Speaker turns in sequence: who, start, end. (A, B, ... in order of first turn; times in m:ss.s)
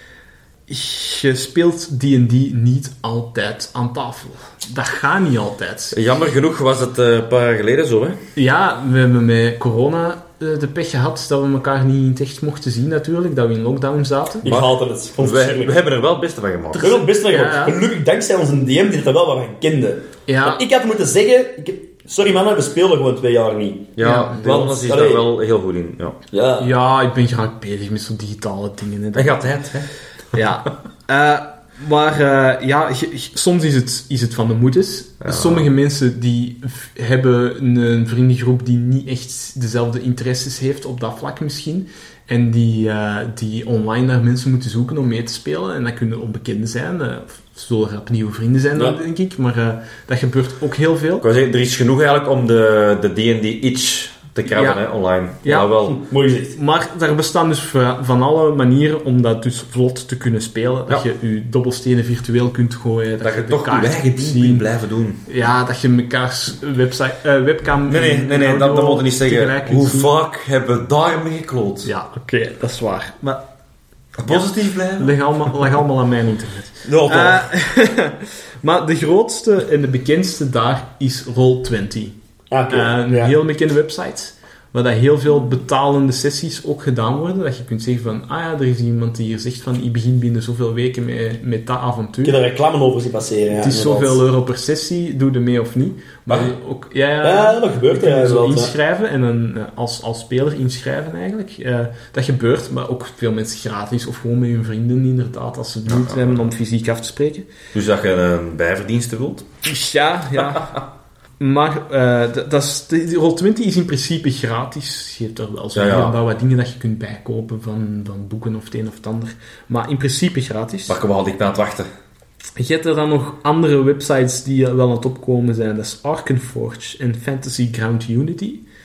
0:00.7-0:06.0 A
0:05.9-0:08.2 B
0:08.4-0:14.5 A
0:14.4-0:15.8 C
0:14.4-0:17.0 B
0:16.7-0:17.8 A
0:16.8-0:23.9 C
0:20.3-0:20.6 A
0:24.0-0:26.2 B
0:24.0-0:24.8 A
0:24.4-0:25.2 C
0:26.3-0:26.7 C
0:26.6-0:29.5 A
0:29.1-0:29.9 B
0:30.3-0:51.2 A
0:35.2-0:35.7 B
0:51.2-0:56.0 B
0:54.5-0:54.8 A
0:55.4-0:55.9 A
0:56.0-0:56.6 C
0:56.5-1:04.6 A
1:03.2-1:05.2 B
1:05.3-1:10.1 A
1:07.9-1:11.9 B
1:11.8-1:13.4 A
1:14.2-1:15.1 B
1:14.3-1:22.1 A
1:16.8-1:17.4 B
1:22.5-1:23.3 C
1:22.7-1:32.4 A
1:32.2-1:34.2 C
1:33.6-1:47.5 A
1:37.2-1:38.7 C
1:45.9-1:46.5 B
1:47.7-1:49.4 B
1:49.6-1:50.8 A
1:51.4-2:01.0 A
1:55.7-1:56.2 B
2:00.9-2:01.9 B
2:02.6-2:08.6 A